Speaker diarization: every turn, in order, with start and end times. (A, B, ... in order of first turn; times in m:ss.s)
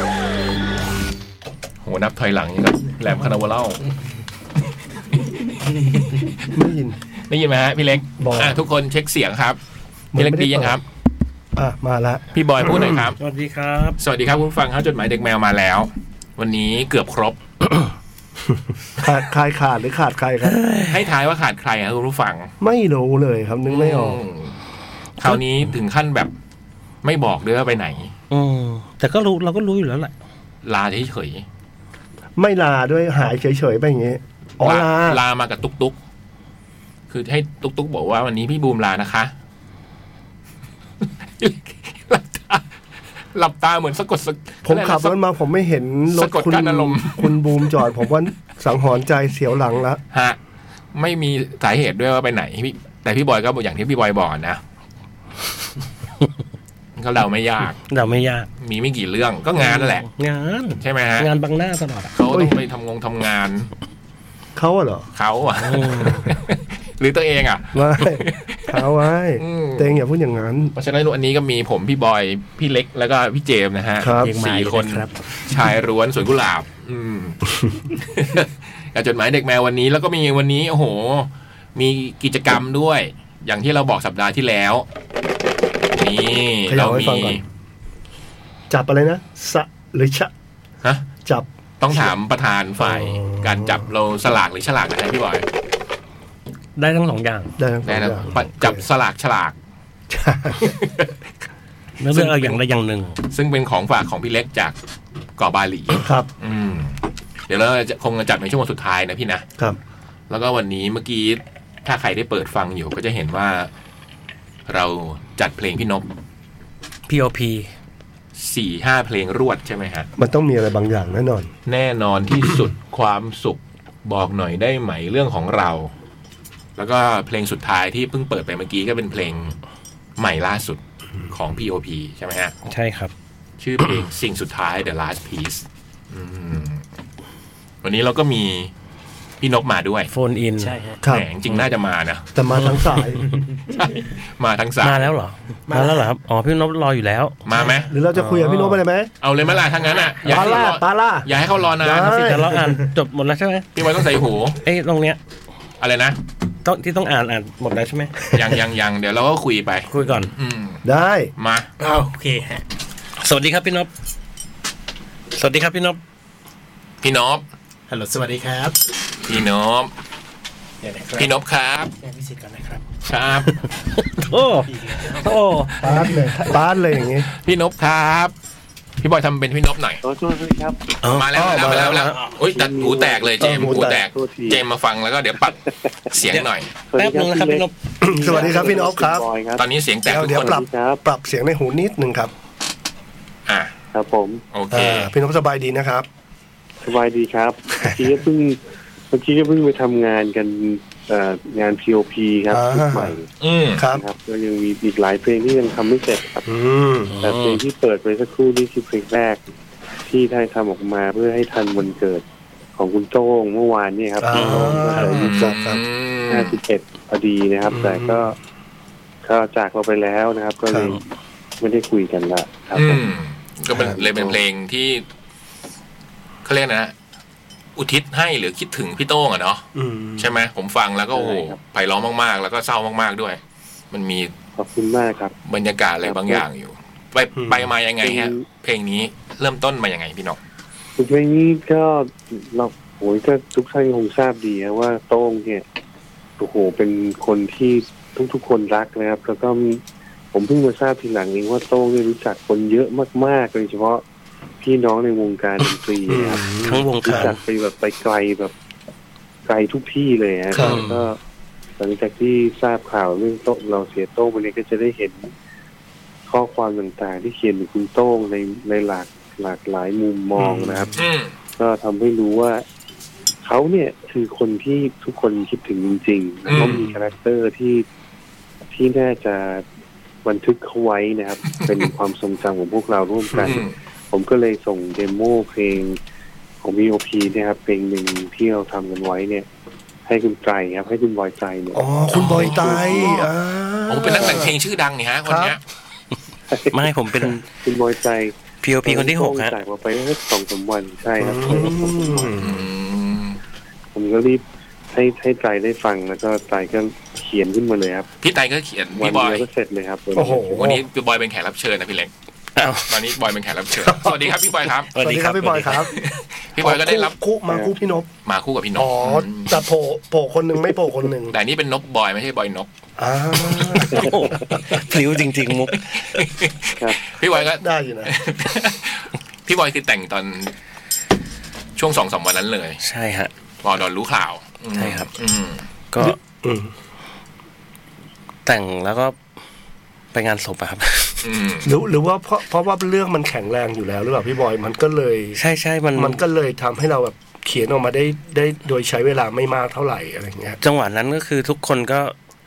0:01.8-0:03.8 A
0:06.5-0:07.0 B
0:07.3-0:09.6 A
0:08.2-0:08.6 B
0:10.1-0:10.8 B
0:10.2-0:10.8 A
0:11.6-0:12.9 B
0:12.3-0:13.2 A
0:13.2-0:14.0 C
0:14.0-0:17.4 A
0:19.0-0:20.6 B
0:20.4-0:21.1 C
0:20.9-0:22.5 A
0:22.6-0:24.2 B
0:23.7-0:24.6 A
0:25.2-0:26.3 A
0:27.0-0:28.1 A
0:28.3-0:30.1 C
0:30.6-0:31.4 A
0:32.4-0:35.2 B
0:34.6-0:36.0 A
0:37.1-0:39.3 A
0:41.4-0:42.7 A
0:43.3-0:45.2 A
0:44.6-0:50.0 B
0:46.1-0:47.9 A
0:50.1-0:50.4 A
0:50.9-0:54.6 A
0:57.0-0:57.9 A
0:57.9-0:58.5 C
0:58.6-1:00.1 A
0:59.6-1:02.1 C
1:00.8-1:01.3 A
1:02.1-1:03.7 A
1:02.3-1:02.6 B
1:04.6-1:05.1 B
1:05.2-1:10.0 A
1:05.6-1:06.3 C
1:07.7-1:10.7 B
1:10.8-1:24.8 A
1:14.0-1:14.4 B
1:14.1-1:15.5 D
1:26.0-1:27.4 A
1:26.7-1:27.4 B
1:28.7-1:30.3 B
1:31.2-1:32.1 B
1:31.8-1:35.4 A
1:32.8-1:33.9 B
1:36.8-1:37.5 C
1:37.6-1:38.8 B
1:37.8-1:39.6 A
1:40.1-1:40.7 B
1:40.6-1:41.2 A
1:42.0-1:43.2 C
1:42.1-1:42.6 A
1:43.3-1:44.8 A
1:45.4-1:47.0 A
1:46.0-1:46.3 B
1:47.5-1:49.4 A
1:50.3-1:53.7 A
1:54.7-1:56.0 A
1:57.1-1:57.7 C
1:58.4-2:00.1 A
2:00.2-2:01.5 B
2:01.7-2:05.9 A
2:06.8-2:09.6 A
2:10.2-2:12.5 A
2:12.7-2:13.1 C
2:13.6-2:16.8 A
2:17.8-2:18.7 A
2:19.4-2:20.1 A
2:20.1-2:20.7 C
2:20.6-2:21.0 D
2:21.0-2:21.3 B
2:21.1-2:22.3 A
2:22.4-2:23.2 B
2:22.6-2:23.4 C
2:23.7-2:25.1 A
2:24.8-2:27.4 C
2:25.7-2:26.1 D
2:27.4-2:27.9 A
2:27.8-2:29.1 B
2:29.2-2:32.4 A
2:30.0-2:30.5 D
2:30.2-2:32.6 B
2:32.1-2:33.9 C
2:33.8-2:34.6 A
2:34.6-2:35.2 C
2:35.8-2:36.2 A
2:36.6-2:38.3 C
2:38.3-2:40.8 A
2:39.9-2:40.3 C
2:40.8-2:41.3 B
2:41.4-2:41.7 A
2:41.8-2:42.6 D
2:43.2-2:43.9 C
2:45.3-2:46.0 C
2:47.0-2:47.4 A
2:47.9-2:48.8 D
2:49.2-2:49.9 A
2:50.8-2:51.3 D
2:51.2-2:51.9 A
2:52.0-2:52.9 D
2:53.1-2:53.5 A
2:54.2-2:56.1 C
2:54.7-2:56.2 D
2:55.8-2:57.3 B
2:57.3-2:58.3 A
2:59.0-3:00.0 A
3:00.0-3:00.8 E
3:01.1-3:06.7 A
3:01.1-3:02.2 C
3:01.1-3:02.1 B
3:02.4-3:04.6 E
3:03.4-3:04.1 B
3:06.2-3:07.8 C
3:06.9-3:09.6 E
3:08.0-3:09.2 B
3:09.6-3:10.6 A
3:10.1-3:12.3 B
3:10.2-3:11.0 E
3:13.5-3:13.7 A
3:13.9-3:14.4 E
3:14.5-3:15.1 A
3:14.7-3:16.1 B
3:16.8-3:18.6 E
3:19.1-3:23.3 E
3:22.5-3:23.1 B
3:23.4-3:23.8 A
3:23.8-3:24.0 B
3:23.9-3:26.5 E
3:26.5-3:27.1 B
3:27.1-3:27.6 C
3:27.2-3:29.4 E
3:30.1-3:32.2 E
3:32.8-3:35.3 E
3:34.2-3:35.8 B
3:34.3-3:34.9 C
3:35.0-3:36.6 A
3:36.3-3:38.4 E
3:37.7-3:38.2 B
3:39.2-3:41.0 E
3:40.7-3:41.0 B
3:41.6-3:43.1 E
3:42.8-3:45.0 A
3:43.7-3:44.0 B
3:46.4-3:46.9 A
3:47.8-3:53.4 A
3:49.8-3:50.3 B
3:51.1-3:51.6 E
3:53.9-3:54.3 A
3:54.6-3:55.4 E
3:55.5-4:00.4 A
3:56.0-3:56.4 E
3:57.4-3:57.7 B
3:58.0-3:58.4 E
4:01.0-4:05.6 E
4:06.4-4:09.8 E
4:10.3-4:14.0 E
4:14.6-4:18.5 E
4:16.1-4:17.3 B
4:16.5-4:17.4 C
4:19.5-4:21.2 E
4:20.5-4:21.0 B
4:21.8-4:25.3 E
4:26.3-4:31.0 E
4:30.4-4:31.0 B
4:31.0-4:31.3 A
4:31.6-4:32.6 E
4:33.4-4:37.8 E
4:36.5-4:36.9 A
4:38.7-4:39.6 E
4:40.2-4:46.0 E
4:43.4-4:43.7 A
4:46.6-4:49.5 E
4:50.1-4:53.2 E
4:51.8-4:54.6 B
4:52.1-4:53.3 A
4:53.9-4:55.6 A
4:55.3-4:55.6 B
4:56.5-5:02.6 E
4:56.7-4:57.4 C
4:58.6-4:59.6 C
5:01.2-5:02.7 B
5:02.4-5:03.4 A
5:04.0-5:08.1 E
5:08.2-5:09.4 A
5:09.0-5:10.6 E
5:10.2-5:10.8 B
5:10.5-5:12.1 A
5:12.6-5:13.0 C
5:12.9-5:14.9 A
5:13.8-5:14.3 B
5:14.9-5:16.0 B
5:14.9-5:15.8 C
5:15.9-5:17.1 A
5:16.6-5:18.1 B
5:18.3-5:19.6 A
5:18.8-5:21.4 B
5:21.3-5:22.7 A
5:23.0-5:24.8 B
5:23.4-5:24.1 A
5:23.8-5:26.2 C
5:26.2-5:30.5 A
5:27.4-5:28.1 B
5:31.8-5:32.8 A
5:32.8-5:33.3 C
5:33.6-5:35.6 A
5:34.8-5:35.1 C
5:35.9-5:36.2 C
5:36.0-5:36.7 B
5:38.4-5:39.2 C
5:40.1-5:41.2 C
5:41.2-5:41.7 A
5:41.6-5:45.4 B
5:45.4-5:46.2 C
5:46.0-5:50.6 B
5:50.6-5:52.2 C